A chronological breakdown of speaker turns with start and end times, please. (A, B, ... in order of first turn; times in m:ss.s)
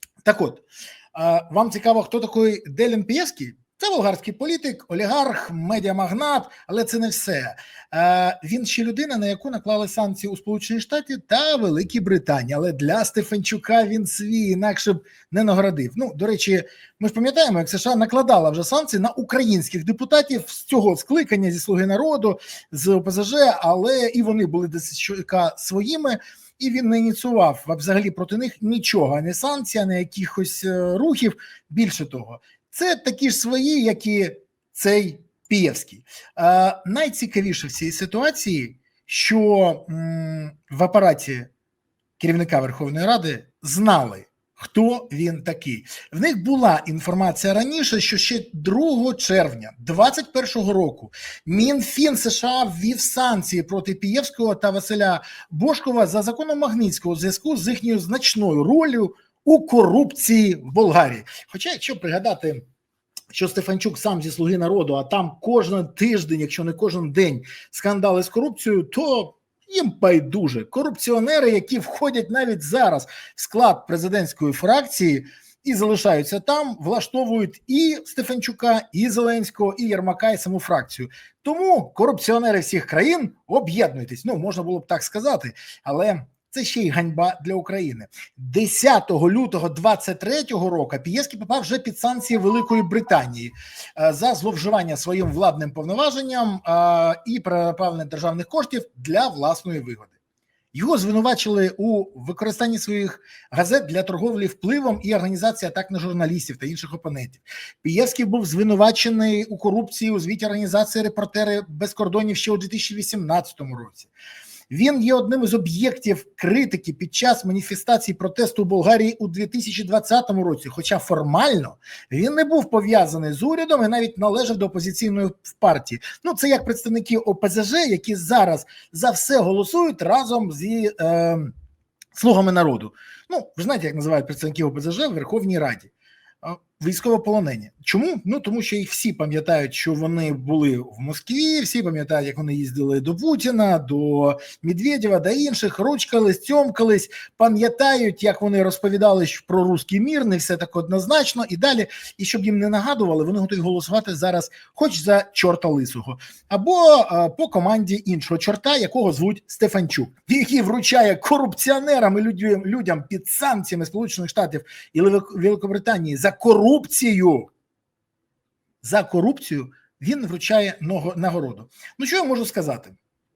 0:00.2-0:41.5 A
0:42.2-1:02.6 A
1:03.3-1:40.1 A
1:40.7-1:54.1 A
1:54.7-2:11.5 A
2:12.1-2:15.9 A
2:16.4-2:47.5 A
2:48.8-2:53.0 A